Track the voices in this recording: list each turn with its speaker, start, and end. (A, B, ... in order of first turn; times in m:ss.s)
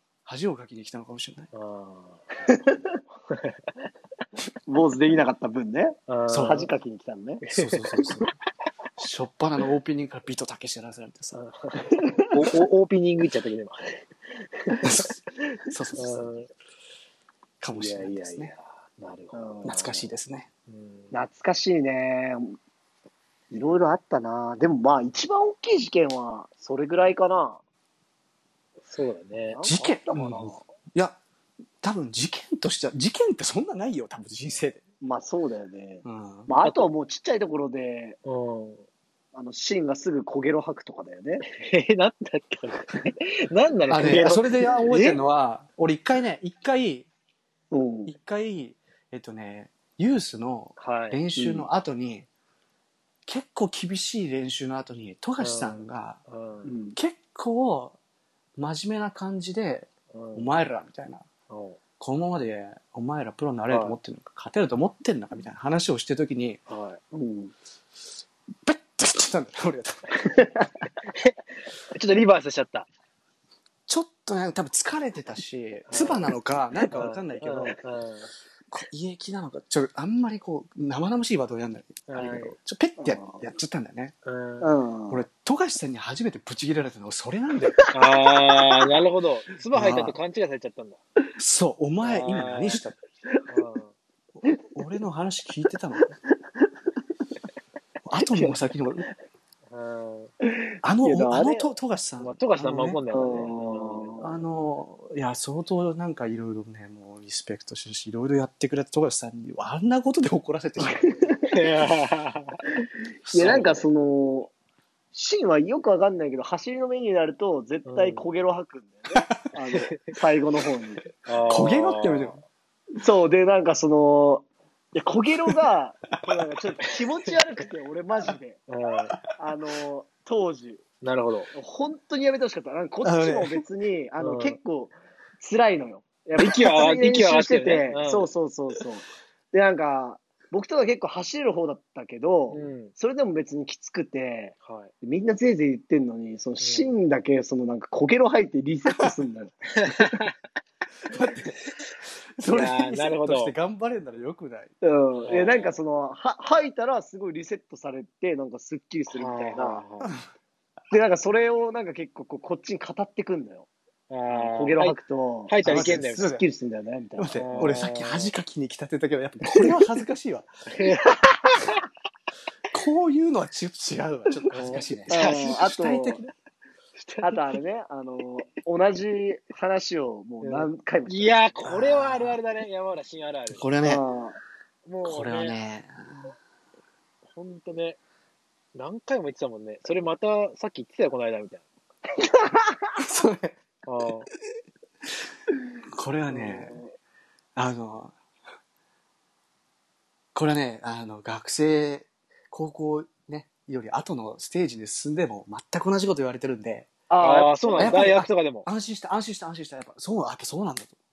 0:00.2-0:01.5 A
0:01.5-0:02.2 B
0:02.5-0:03.0 C
0:03.3-0:03.6 B
0:04.7-0:07.4 C
0:06.1-0:06.7 B
0:06.3-0:06.6 A
0:07.4-0:08.3 B
0:07.5-0:08.3 A
0:09.0-0:11.4 A
0:11.3-0:14.0 B
0:11.9-0:12.3 C
0:14.8-0:16.3 A
0:16.0-0:16.5 B
0:17.6-0:18.5 A
0:17.7-0:20.0 B
0:19.3-0:20.0 C
0:19.6-0:20.5 A
0:20.7-0:21.1 B
0:21.1-0:22.6 C
0:23.5-0:27.6 C
0:28.8-0:29.6 B
0:29.5-0:30.6 C
0:29.6-0:31.2 A
0:31.8-0:34.8 A
0:35.0-0:38.2 C
0:36.0-0:36.5 A
0:38.2-0:38.8 B
0:39.3-0:41.4 C
0:41.4-0:45.2 B
0:43.9-0:47.1 A
0:47.7-0:48.1 C
0:48.1-0:52.3 A
0:50.8-0:51.2 B
0:51.3-0:51.7 C
0:53.3-0:56.2 A
0:55.4-0:56.7 B
0:56.6-0:57.0 C
0:56.9-0:58.0 A
0:58.6-1:01.2 A
1:00.1-1:00.5 B
1:01.5-1:01.8 B
1:02.0-1:06.6 A
1:03.7-1:04.0 B
1:06.7-1:07.0 B
1:07.1-1:07.5 C
1:08.6-1:10.2 A
1:10.2-1:10.8 C
1:11.1-1:12.9 B
1:13.9-1:17.8 A
1:15.9-1:16.2 B
1:16.9-1:17.7 C
1:16.9-1:18.3 B
1:18.7-1:24.1 A
1:22.1-1:22.5 B
1:23.0-1:23.4 C
1:24.2-1:24.7 B
1:24.6-1:25.2 C
1:25.1-1:27.8 A
1:27.9-1:31.0 B
1:29.7-1:30.2 A
1:31.4-1:33.0 A
1:32.0-1:32.8 B
1:33.5-1:33.9 B
1:34.4-1:36.1 A
1:38.0-1:39.1 A
1:38.2-1:38.5 C
1:39.7-1:40.3 B
1:40.5-1:41.7 C
1:40.8-1:43.0 A
1:42.2-1:44.2 B
1:43.1-1:44.4 C
1:44.2-1:51.2 A
1:50.8-1:51.5 C
1:51.5-1:52.6 B
1:53.2-1:53.7 A
1:53.3-1:54.5 C
1:53.4-1:53.8 B
1:55.1-2:01.0 C
1:57.8-1:58.3 B
1:59.8-2:00.1 B
2:01.2-2:02.4 B
2:01.5-2:02.4 A
2:02.9-2:08.6 C
2:08.7-2:09.1 B
2:09.4-2:10.8 C
2:11.0-2:11.5 B
2:11.5-2:30.1 C
2:13.0-2:13.6 A
2:14.2-2:14.6 B
2:16.4-2:18.3 B
2:22.5-2:22.9 B
2:24.6-2:24.9 B
2:26.6-2:26.9 B
2:29.8-2:30.3 B
2:31.0-2:31.6 A
2:32.4-2:34.7 A
2:32.5-2:33.5 B
2:34.8-2:39.8 C
2:35.2-2:35.7 B
2:39.1-2:40.1 B
2:40.9-2:43.7 C
2:44.1-2:46.3 B
2:44.3-2:47.7 C
2:45.6-2:46.4 A
2:47.2-2:50.5 A
2:47.3-2:48.3 B
2:50.7-2:51.8 B
2:52.7-2:56.2 A
2:54.5-2:55.4 B
2:55.1-2:56.2 C
2:57.0-2:57.4 B
2:57.2-3:01.4 C
3:00.4-3:03.6 B
3:01.6-3:02.4 A
3:03.5-3:04.0 A
3:03.8-3:04.4 C
3:04.8-3:05.6 B
3:05.0-3:06.3 A
3:07.3-3:08.0 B
3:08.7-3:11.6 B
3:12.2-3:12.9 C
3:12.9-3:13.5 A
3:13.8-3:14.3 B
3:15.9-3:16.8 A
3:16.4-3:16.6 B
3:16.4-3:16.9 C
3:17.6-3:18.1 A
3:20.3-3:26.9 A
3:27.1-3:28.1 C
3:27.2-3:28.7 B
3:27.8-3:30.9 A